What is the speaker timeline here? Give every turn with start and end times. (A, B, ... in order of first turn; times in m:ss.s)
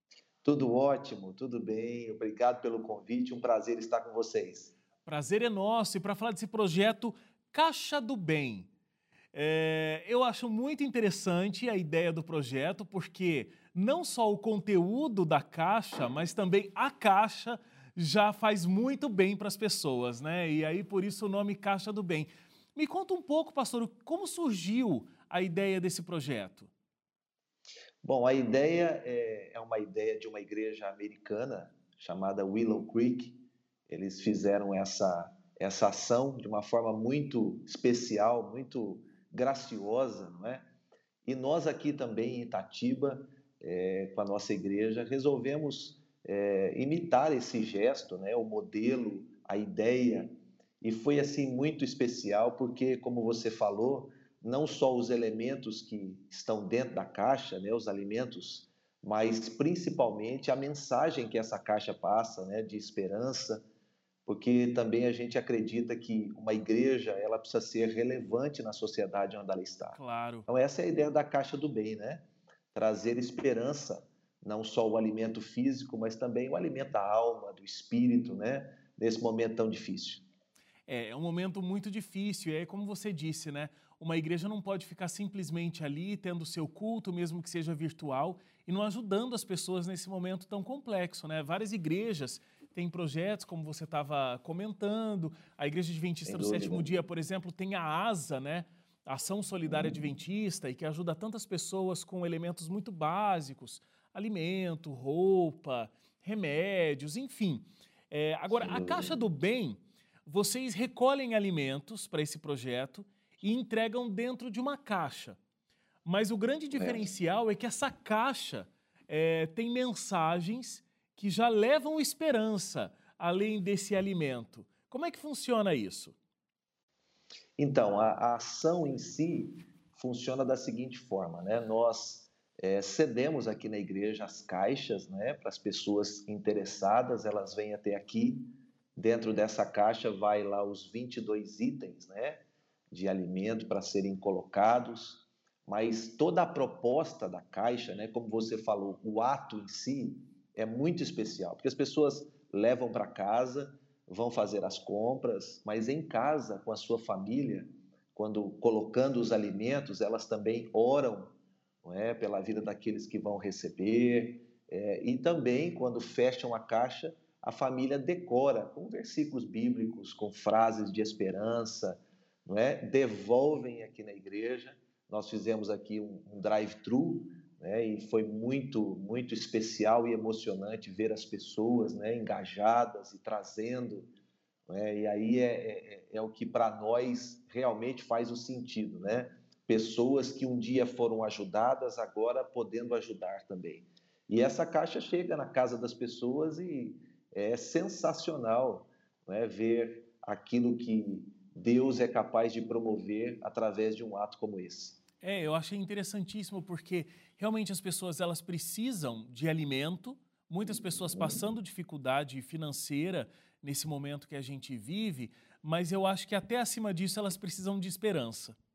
0:00.4-0:04.7 A
0:05.0-0:08.7 B
0:09.3-0:26.7 B
0:28.0-0:40.6 A
0:41.2-0:50.3 A
0:50.8-1:03.6 A
1:04.3-1:20.2 A
1:09.9-1:10.5 B
1:20.9-1:55.4 B
1:36.3-1:36.9 A
1:39.7-1:40.0 A
1:48.5-1:49.2 A
1:56.0-2:06.2 B
1:56.7-1:57.1 A
2:07.6-3:04.1 A
3:04.7-3:25.0 A
3:25.2-3:38.6 B
3:30.9-3:31.4 A